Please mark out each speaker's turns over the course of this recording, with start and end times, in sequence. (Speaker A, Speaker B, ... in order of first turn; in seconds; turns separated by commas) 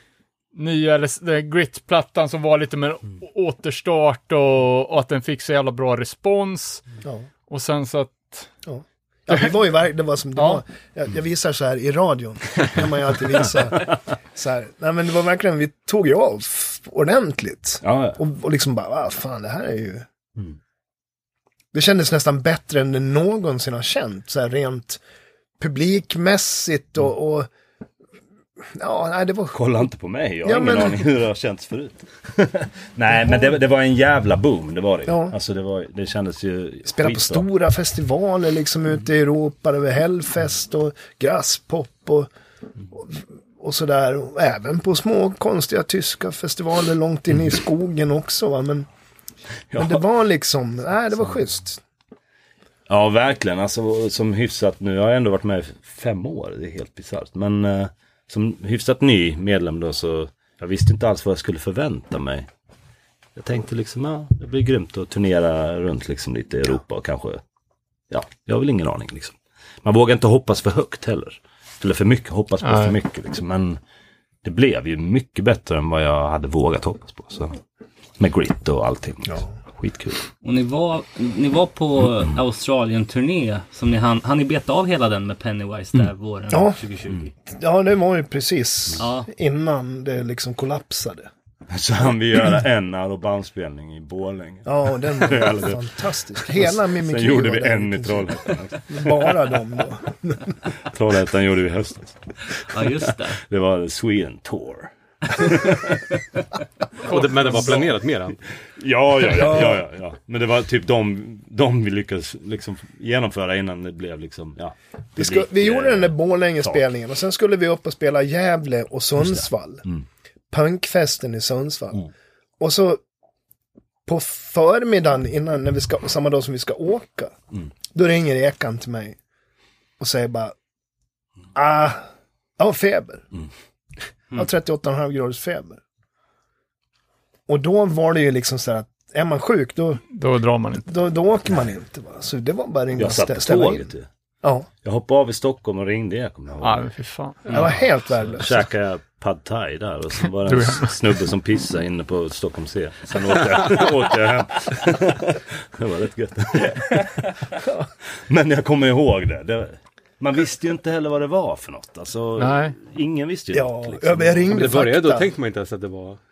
Speaker A: 0.5-6.8, Speaker A: 7.5-8.5, Speaker B: 8.7-20.1, Speaker A: 10.4-10.6, Speaker C: 17.8-18.2, Speaker B: 21.7-25.0, Speaker B: 25.6-27.5, Speaker B: 28.6-29.6, Speaker C: 29.5-37.5, Speaker B: 30.4-31.1, Speaker B: 35.1-35.4, Speaker B: 36.9-42.3, Speaker B: 42.9-48.9, Speaker C: 49.7-50.0, Speaker B: 49.8-51.8, Speaker C: 52.9-62.5, Speaker C: 63.4-67.4, Speaker C: 68.1-73.8, Speaker A: 72.6-73.0, Speaker C: 74.4-77.6, Speaker C: 78.2-80.3, Speaker D: 80.4-87.3, Speaker B: 86.5-86.8, Speaker B: 87.5-91.3, Speaker D: 89.0-89.3, Speaker C: 91.7-95.9, Speaker B: 94.7-100.6, Speaker C: 96.4-99.3, Speaker C: 100.8-102.6, Speaker D: 102.5-103.4, Speaker C: 103.4-106.2, Speaker E: 107.0-108.4, Speaker A: 107.1-107.9, Speaker C: 108.7-116.8, Speaker B: 109.2-109.8, Speaker B: 115.2-119.8, Speaker C: 119.2-120.0, Speaker B: 120.5-122.1, Speaker B: 122.6-123.0, Speaker B: 124.1-127.3, Speaker B: 127.9-129.2, Speaker B: 130.0-130.6, Speaker B: 131.6-132.1, Speaker B: 132.6-133.2, Speaker B: 134.3-135.8, Speaker B: 137.5-140.0, Speaker A: 140.1-140.9, Speaker B: 140.9-144.7, Speaker C: 143.0-144.1, Speaker C: 144.8-146.9, Speaker A: 146.6-147.7, Speaker B: 147.5-148.7, Speaker C: 147.5-157.3, Speaker A: 150.5-150.9, Speaker B: 157.6-157.9, Speaker C: 158.2-164.6, Speaker A: 162.4-162.8, Speaker B: 163.5-165.3, Speaker E: 164.5-166.2